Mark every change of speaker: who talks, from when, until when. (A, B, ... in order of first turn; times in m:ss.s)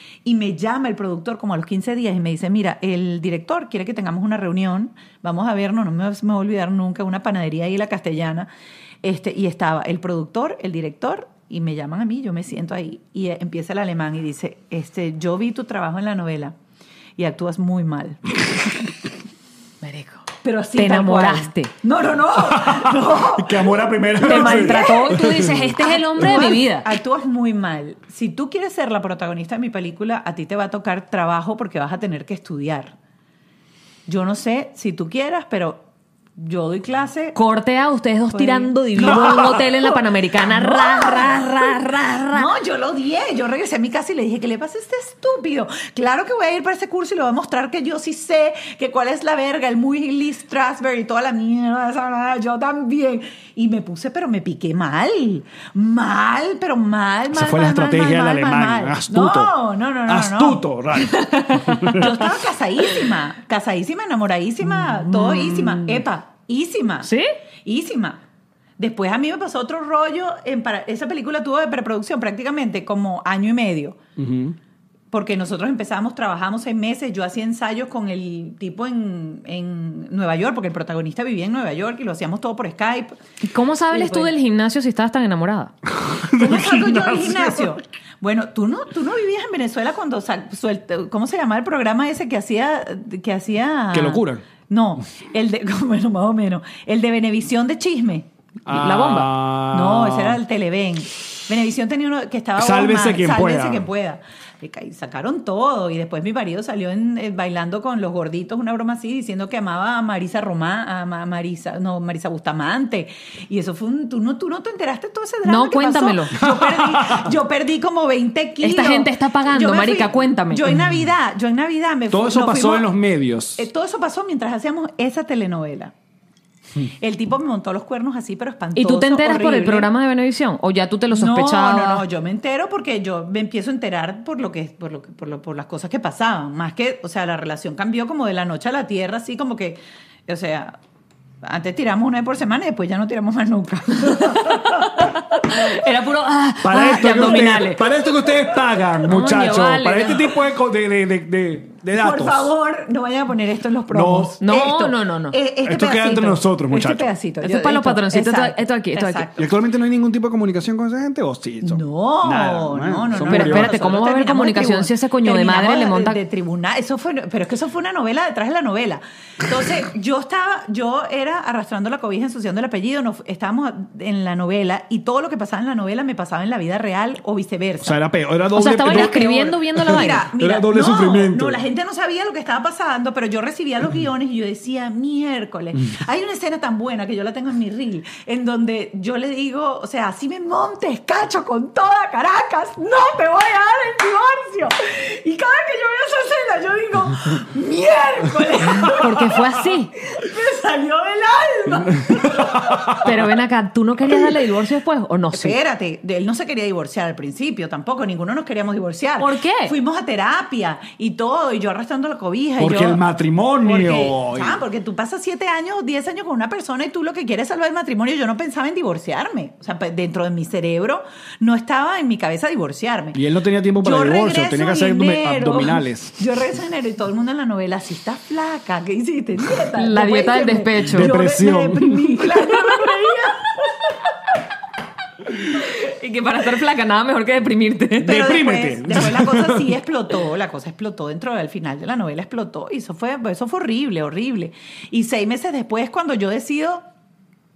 0:00.2-0:08.5 A
0:09.0-0:16.6 A
0:17.2-0:18.2 A
0:19.8-0:21.7 B
0:20.4-0:33.0 A
0:22.4-0:25.8 C
0:24.2-0:26.9 B
0:34.1-0:35.8 A
0:36.4-0:37.4 A
0:37.4-0:42.5 B
0:38.3-0:41.8 A
0:42.3-1:00.6 A
0:57.3-1:02.1 C
1:01.1-1:02.1 B
1:01.9-1:07.1 A
1:04.9-1:06.0 B
1:07.6-1:08.2 A
1:08.8-1:14.0 A
1:14.2-1:14.6 C
1:15.1-1:23.2 A
1:23.4-1:25.7 B
1:23.9-1:24.3 A
1:26.0-1:27.8 C
1:26.3-1:38.3 A
1:33.9-1:34.4 C
1:38.6-1:40.4 C
1:38.7-1:39.3 B
1:39.7-2:02.9 A
1:42.6-1:43.9 C
1:55.4-1:56.4 B
1:56.4-1:57.3 C
1:58.6-2:00.7 B
2:00.8-2:01.0 C
2:02.1-2:03.7 C
2:03.6-2:05.9 A
2:06.8-2:09.9 A
2:08.8-2:12.0 B
2:11.1-2:20.8 A
2:21.4-2:24.6 A
2:24.2-2:27.9 B
2:26.6-2:32.5 C
2:29.1-2:30.3 B
2:31.9-2:39.5 A
2:33.9-2:34.4 C
2:34.4-2:35.4 B
2:35.6-2:37.1 C
2:37.4-2:39.3 B
2:39.4-2:43.8 C
2:41.6-2:58.0 A
2:43.3-2:46.2 B
2:57.8-3:01.6 C
2:58.6-3:00.2 B
2:58.9-3:19.3 A
3:18.9-3:19.9 B
3:20.1-3:22.8 A
3:22.1-3:23.1 C
3:23.0-3:25.6 B
3:25.3-3:33.0 A
3:29.2-3:29.8 B
3:32.6-3:34.6 C
3:33.6-3:43.2 A
3:43.1-3:46.2 C
3:43.8-3:53.6 A
3:49.8-3:51.1 B
3:50.9-3:52.4 C
3:55.5-3:58.2 B
3:58.0-3:59.7 C
3:58.0-4:06.8 A